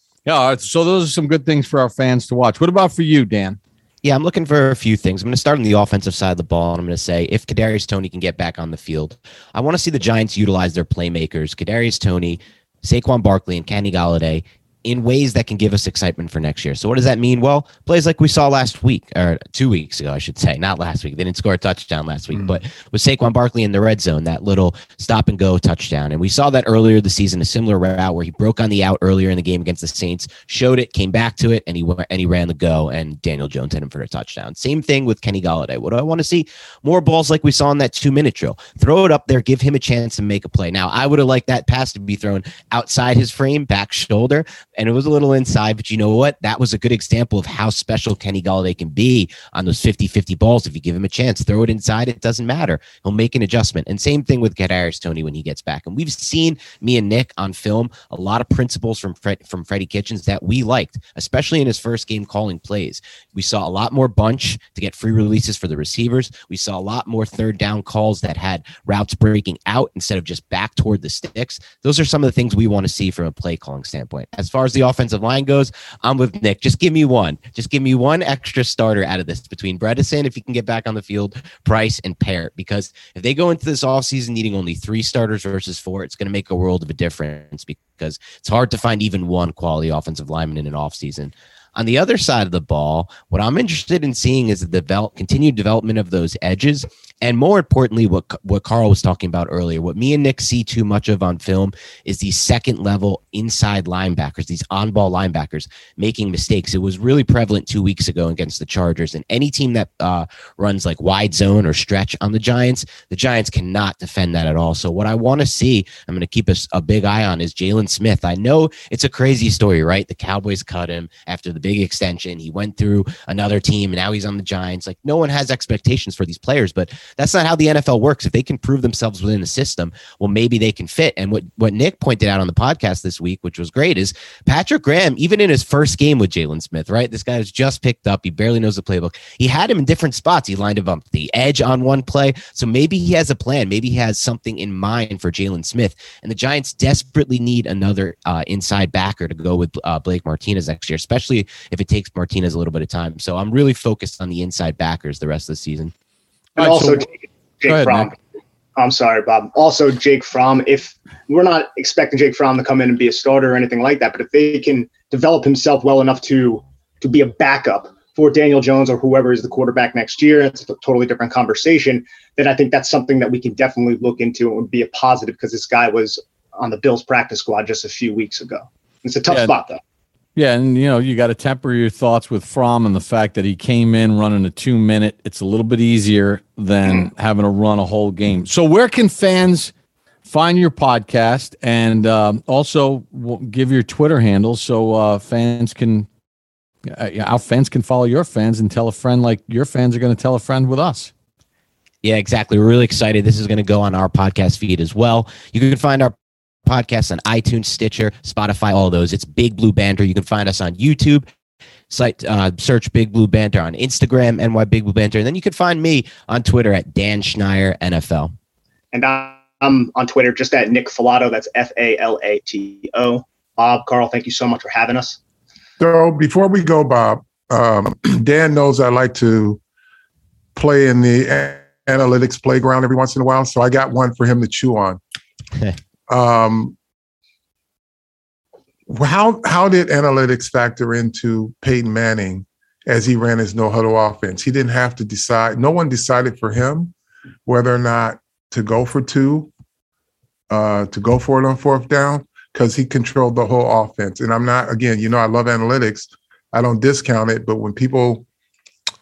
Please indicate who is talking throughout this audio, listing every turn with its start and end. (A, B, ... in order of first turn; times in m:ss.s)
0:00.3-0:03.6 A
0:04.0-2:35.9 B
0:22.4-0:22.6 C
2:36.6-2:37.0 A
2:36.6-2:38.1 D
2:37.7-2:38.1 A
2:38.8-2:59.8 D
3:00.4-3:09.7 A
3:10.2-3:16.1 A
3:16.9-3:21.1 A
3:22.0-3:26.2 B
3:26.7-3:31.3 B
3:31.9-3:38.3 B
3:38.9-3:45.2 D
3:45.8-3:49.6 C
3:50.6-3:55.0 C
3:56.1-3:56.8 C
3:58.9-4:06.9 C
4:07.5-4:09.5 C
4:10.5-4:18.3 C